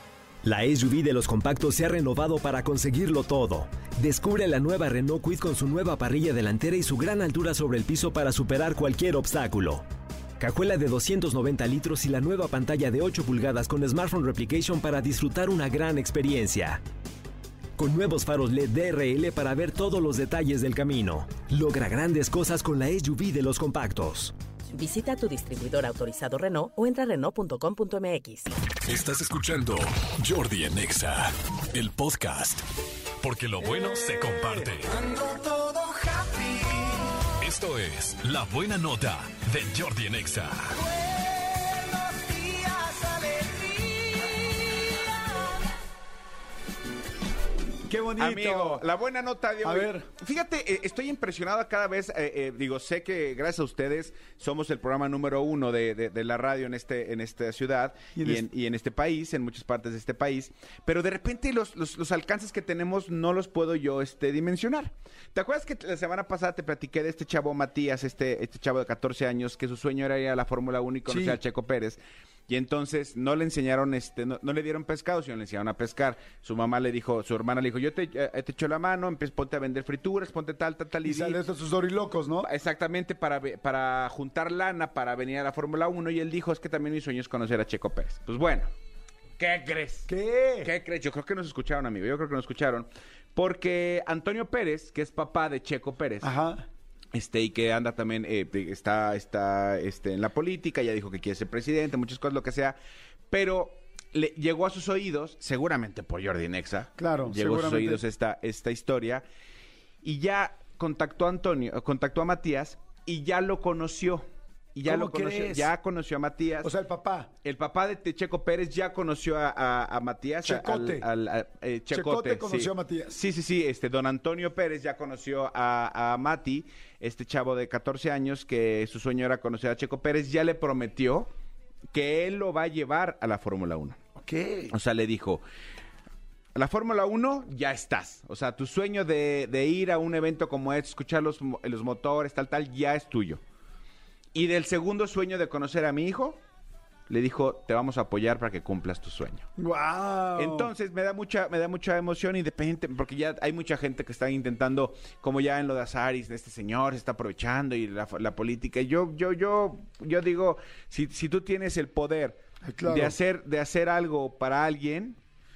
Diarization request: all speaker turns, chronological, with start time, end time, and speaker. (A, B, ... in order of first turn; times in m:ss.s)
0:00.4-0:09.8 A
0:10.4-0:16.8 A
0:17.8-0:24.3 A
0:24.7-0:28.5 B
0:28.8-0:32.6 C
0:33.2-0:35.1 C
0:35.2-0:36.0 A
0:37.4-0:40.8 C
0:42.2-0:44.0 A
0:47.9-0:48.8 D
0:48.2-1:21.4 E
0:49.6-0:50.1 D
0:58.2-0:58.5 D
1:11.0-1:11.4 D
1:21.0-1:22.5 D
1:22.4-1:28.7 E
1:29.4-1:36.3 E
1:30.1-1:30.7 D
1:36.2-1:36.6 D
1:37.1-1:42.8 E
1:43.3-1:49.2 E
1:47.0-1:48.0 D
1:50.0-1:56.7 E
1:54.8-1:55.7 D
1:56.6-1:57.3 D
1:57.4-2:11.3 E
2:00.4-2:01.1 D
2:01.9-2:03.2 D
2:11.9-2:14.0 E
2:14.2-2:14.7 D
2:14.7-2:15.4 E
2:16.5-2:23.4 E
2:24.3-2:26.4 E
2:27.1-2:29.5 E
2:29.6-2:30.7 D
2:30.3-2:45.2 E
2:42.6-2:43.2 D